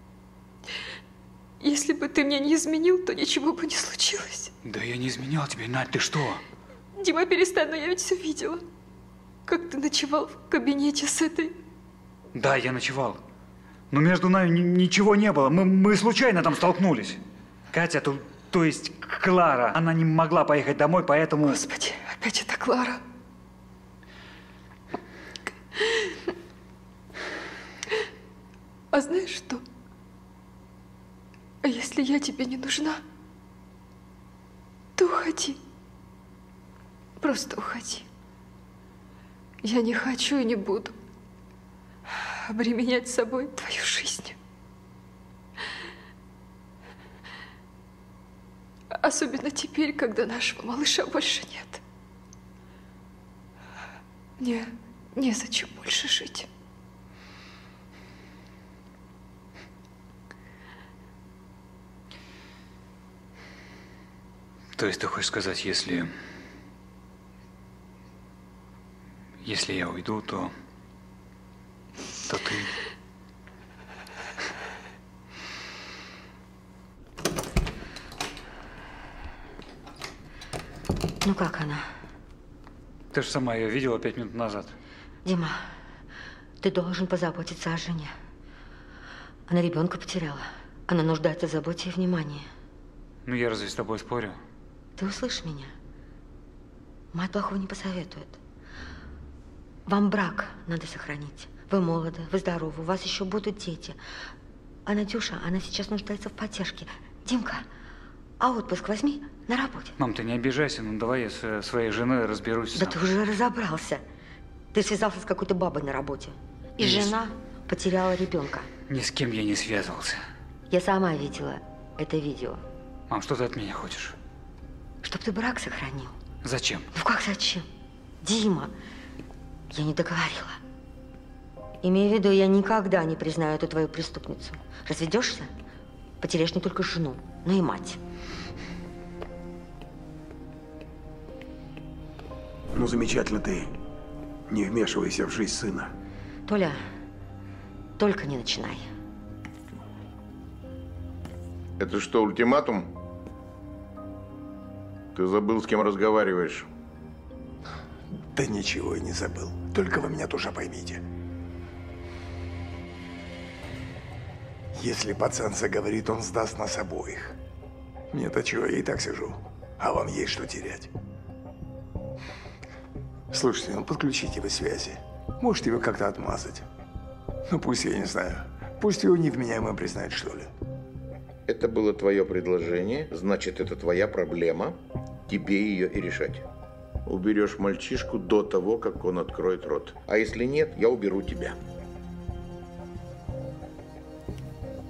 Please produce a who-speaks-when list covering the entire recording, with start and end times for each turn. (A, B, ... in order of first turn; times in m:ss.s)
0:01.6-0:04.5 A
0:04.6-0:06.4 B
0:07.0-0:08.6 A
0:09.5-0:11.6 A
0:12.3-0:13.2 B
0:13.9-0:17.2 B
0:17.7-0:21.6 B
0:21.4-0:23.0 A
0:28.9-0:29.6 A
0:31.6-0:33.0 A
0:35.0-0:35.6 A
0:37.2-0:38.0 A
0:39.6-0:41.0 A
0:42.5-0:44.4 A
0:48.9-0:51.8 A
0:54.4-0:56.5 A
1:04.8-1:06.1 B
1:09.4-1:10.5 B
1:12.2-1:12.7 B
1:21.2-1:21.9 C
1:23.1-1:24.8 B
1:25.2-1:25.6 C
1:26.6-1:28.1 C
1:29.5-1:32.4 C
1:33.2-1:34.4 B
1:35.0-1:35.7 C
1:37.1-1:38.4 C
1:39.9-1:44.0 C
1:44.8-1:47.6 C
1:48.4-1:49.9 C
1:50.0-1:53.0 B
1:52.7-1:54.0 C
1:54.7-1:58.7 C
1:56.8-1:57.2 B
1:58.9-2:00.2 B
2:00.7-2:02.6 C
2:03.1-2:04.2 B
2:05.0-2:06.1 C
2:06.4-2:06.8 B
2:06.9-2:07.6 C
2:08.2-2:08.7 C
2:09.7-2:10.6 C
2:11.8-2:15.5 C
2:16.2-2:18.0 C
2:22.7-2:23.7 D
2:24.5-2:25.9 D
2:26.5-2:26.8 C
2:28.0-2:28.8 C
2:31.8-2:32.9 E
2:35.1-2:36.6 E
2:38.3-2:41.0 D
2:44.7-2:47.3 D
2:48.1-2:50.9 D
2:53.3-2:56.6 D
2:57.5-3:00.5 D
3:01.5-3:04.7 E
3:05.3-3:06.4 E
3:07.0-3:11.6 E